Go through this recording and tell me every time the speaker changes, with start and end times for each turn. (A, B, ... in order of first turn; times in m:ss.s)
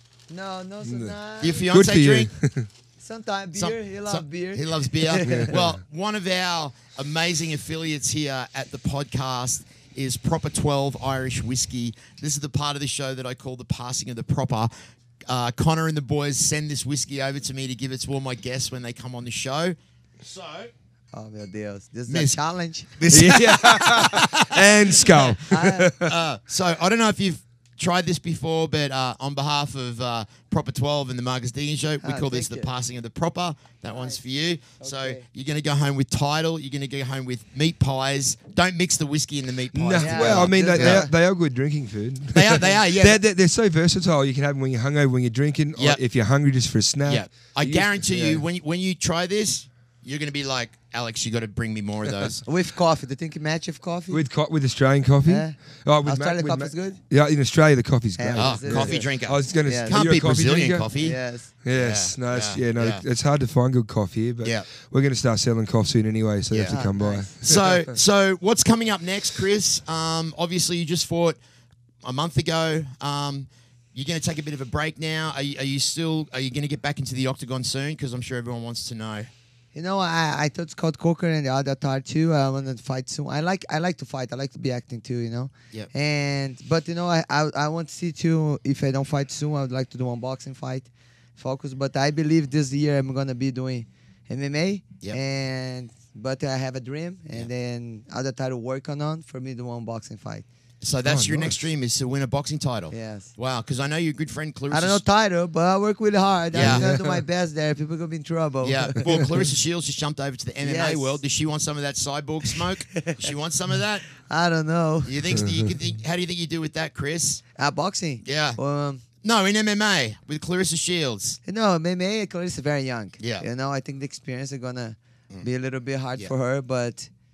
0:00.3-0:01.7 A
0:00.8-0:01.2 B
0:01.4-0:02.3 C
0:01.7-0:02.7 B
0:03.0-0:05.5 A
0:03.5-0:14.7 C
0:05.2-0:05.7 B
0:15.3-0:20.7 C
0:21.1-0:22.9 A
0:22.1-0:22.4 C
0:23.0-0:41.1 C
0:23.1-0:26.1 B
0:25.4-0:25.9 A
0:32.0-0:32.7 A
0:33.9-0:34.2 A
0:34.8-0:35.2 A
0:39.7-0:48.4 B
0:40.0-0:41.1 A
0:42.3-0:43.2 C
0:47.1-0:52.4 C
0:52.5-0:54.2 A
0:54.1-1:00.9 B
0:55.2-0:57.0 A
0:58.2-0:59.0 A
0:58.4-1:01.2 C
0:59.6-1:00.0 A
1:01.0-1:01.5 A
1:01.6-1:07.9 B
1:01.7-1:03.0 C
1:06.5-1:06.8 C
1:06.7-1:07.4 A
1:07.4-1:11.4 C
1:12.0-1:19.3 C
1:19.7-1:40.4 A
1:40.8-1:45.0 C
1:41.0-1:41.6 B
1:42.9-1:43.3 A
1:44.7-1:49.3 A
1:46.5-1:46.9 C
1:46.6-1:47.2 B
1:48.6-1:54.1 C
1:50.6-1:51.2 A
1:52.9-1:53.3 A
1:54.1-1:55.4 A
1:55.0-1:57.4 C
1:55.4-1:55.7 B
1:57.6-1:59.0 A
1:58.2-1:58.6 C
1:59.2-2:01.4 C
2:01.4-2:07.1 A
2:03.2-2:03.4 C